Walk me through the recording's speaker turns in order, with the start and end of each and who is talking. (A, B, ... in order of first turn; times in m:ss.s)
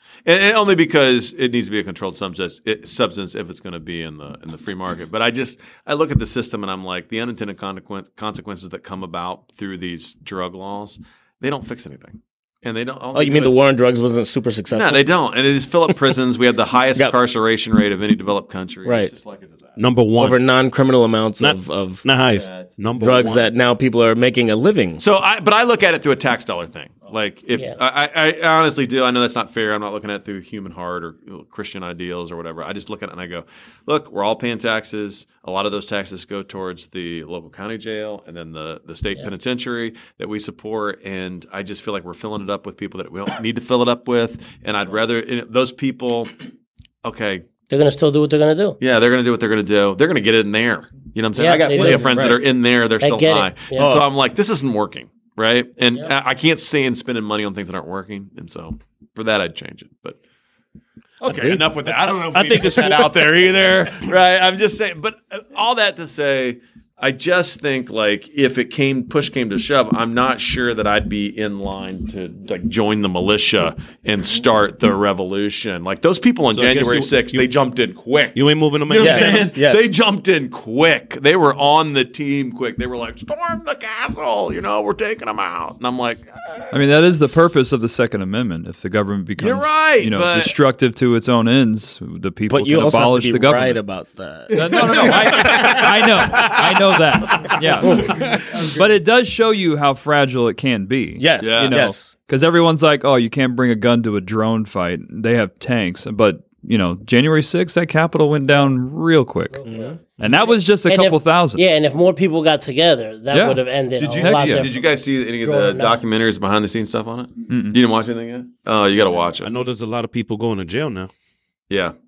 0:00.3-0:13.6 A
0:13.1-0:15.1 B
0:14.7-0:19.8 A
0:18.8-0:19.1 B
0:19.8-0:20.4 C
0:20.2-0:22.0 B
0:21.4-0:23.4 C
0:22.2-0:23.5 A
0:23.0-0:25.0 B
0:25.0-0:46.3 A
0:47.0-0:47.5 A
0:47.7-0:48.8 D
0:48.8-1:00.2 A
0:51.4-0:52.3 D
0:51.7-0:52.4 B
0:51.8-0:52.2 C
0:53.0-0:54.0 D
0:53.8-0:54.0 B
1:01.2-1:26.8 A
1:01.3-1:01.6 B
1:01.9-1:04.1 C
1:16.5-1:17.5 C
1:18.3-1:19.5 C
1:19.0-1:19.8 B
1:26.7-1:33.8 E
1:29.4-1:30.6 A
1:32.5-1:35.9 B
1:34.5-1:49.6 E
1:35.0-1:36.7 A
1:37.2-1:38.7 A
1:37.8-1:38.2 B
1:41.2-1:42.1 B
1:41.4-1:41.8 A
1:49.5-1:54.8 D
1:49.6-1:50.4 B
1:50.2-1:51.6 E
1:53.3-1:53.6 E
1:54.0-1:59.5 A
1:54.2-1:54.7 E
1:55.4-1:56.0 D
1:57.5-1:57.8 E
1:59.4-2:01.1 C